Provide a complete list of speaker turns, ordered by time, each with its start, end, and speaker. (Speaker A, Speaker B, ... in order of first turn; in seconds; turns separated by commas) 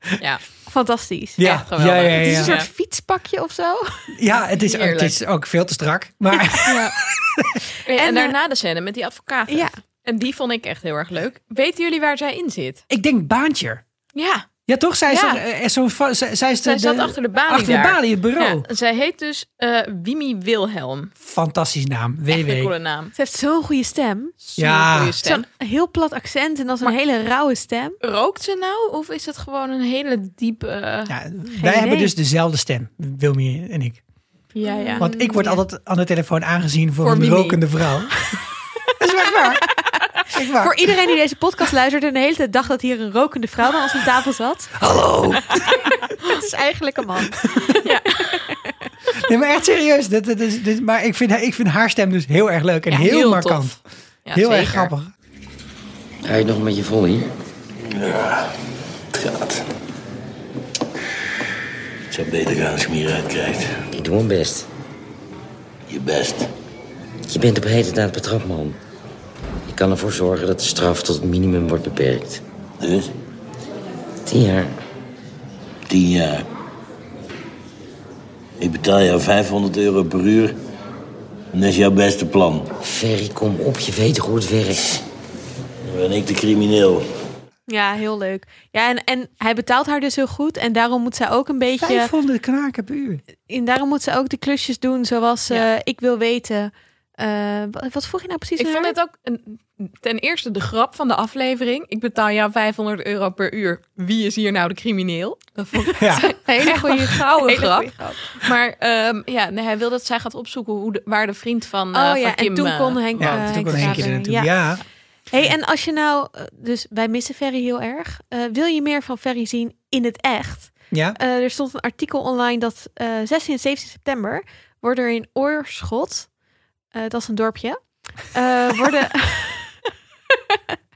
Speaker A: 0.7-1.4, Speaker B: 1.4-2.5, Speaker C: 1.4-2.7, Speaker A: 2.1-4.2, Speaker B: 4.1-7.6, Speaker C: 4.5-5.2, Speaker A: 6.4-6.6, Speaker C: 6.6-7.0, Speaker C: 7.8-12.8, Speaker A: 7.9-8.3, Speaker A: 9.5-9.7, Speaker B: 12.9-13.8, Speaker C: 14.1-14.4, Speaker B: 14.7-18.6, Speaker C: 15.1-15.4, Speaker C: 16.6-21.1, Speaker B: 21.2-22.7, Speaker C: 22.3-23.1, Speaker A: 23.1-24.3, Speaker C: 24.4-25.4, Speaker B: 24.6-25.2, Speaker A: 25.2-28.0, Speaker C: 28.0-31.1, Speaker B: 31.1-34.0, Speaker A: 31.6-32.1, Speaker C: 34.5-35.6, Speaker A: 34.6-35.5, Speaker B: 35.0-38.4, Speaker C: 37.0-37.8, Speaker B: 39.0-39.6, Speaker B: 40.3-40.9, Speaker A: 40.5-44.8, Speaker B: 44.8-45.8, Speaker A: 46.2-47.7, Speaker B: 47.4-47.7, Speaker C: 47.8-48.2, Speaker A: 48.3-48.7, Speaker B: 49.2-53.8, Speaker C: 52.9-54.9, Speaker B: 54.3-55.1, Speaker D: 56.2-57.3, Speaker E: 57.8-58.6, Speaker E: 59.1-59.7, Speaker E: 62.1-63.8, Speaker D: 63.9-64.7, Speaker E: 65.9-66.5, Speaker D: 67.3-68.8, Speaker D: 69.7-72.4, Speaker E: 72.8-73.1, Speaker D: 74.2-74.8, Speaker E: 75.9-76.5, Speaker E: 78.6-80.5, Speaker E: 81.5-82.7, Speaker D: 82.8-85.0, Speaker E: 85.8-87.0, Speaker A: 87.7-92.1, Speaker B: 91.8-93.2, Speaker A: 93.5-98.9, Speaker C: 98.6-114.1, Speaker B: 106.0-106.3, Speaker A: 106.1-108.3, Speaker A: 111.9-114.6, Speaker B: 113.2-114.8, Speaker A: 115.3-126.3, Speaker B: 120.9-121.2, Speaker A: 126.9-129.8, Speaker A: 130.5-130.8